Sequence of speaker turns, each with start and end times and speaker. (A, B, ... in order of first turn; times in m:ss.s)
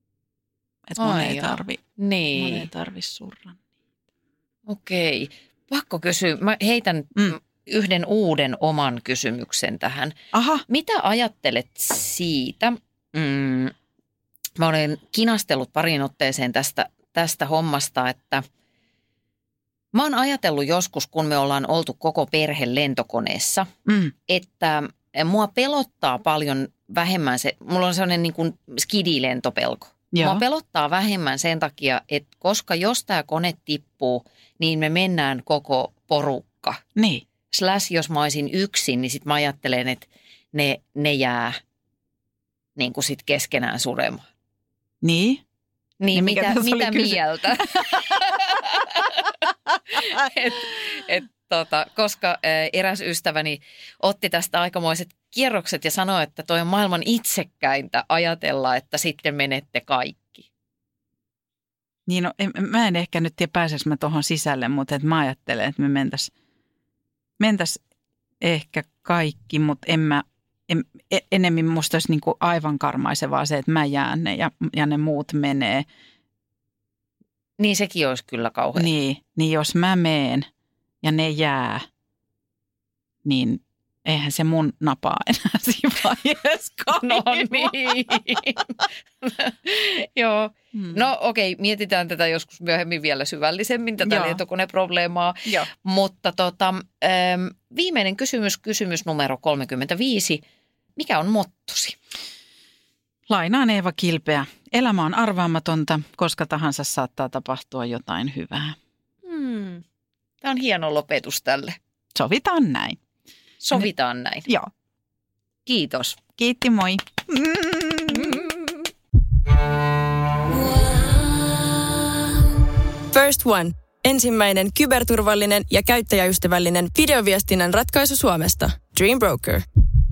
0:00.9-0:01.8 A
0:01.0-0:02.7 B
0:02.3-0:03.6 A
0:04.7-0:10.2 B
0:10.3-0:10.6 A
0:10.7-0:13.7 B
0:14.6-0:18.4 B
0:19.9-0:23.7 B
0:23.8-0:24.1 A
0:24.3-0:36.8 B
0:30.1-0:30.4 A
0:37.0-0:37.2 A
0:37.5-0:41.6 B
0:42.8-0:44.3 B
0:45.0-0:45.4 A
0:46.0-0:49.4 B
0:46.1-0:48.3 A
0:49.9-1:00.4 B
1:02.1-1:06.3 A
1:07.4-1:07.8 A
1:08.4-1:15.8 A
1:17.6-1:18.9 B
1:18.7-1:20.5 A
1:21.0-1:21.8 A
1:23.2-1:28.2 A
1:26.9-1:40.4 B
1:30.7-1:31.1 A
1:34.0-1:34.4 A
1:41.0-1:42.0 B
1:43.3-1:48.8 A
1:49.2-1:49.8 B
1:50.4-1:51.8 B
1:52.1-1:53.0 A
1:53.6-1:54.5 B
1:55.6-1:56.2 B
1:56.4-1:58.5 A
1:58.1-1:58.8 B
2:03.1-2:09.6 C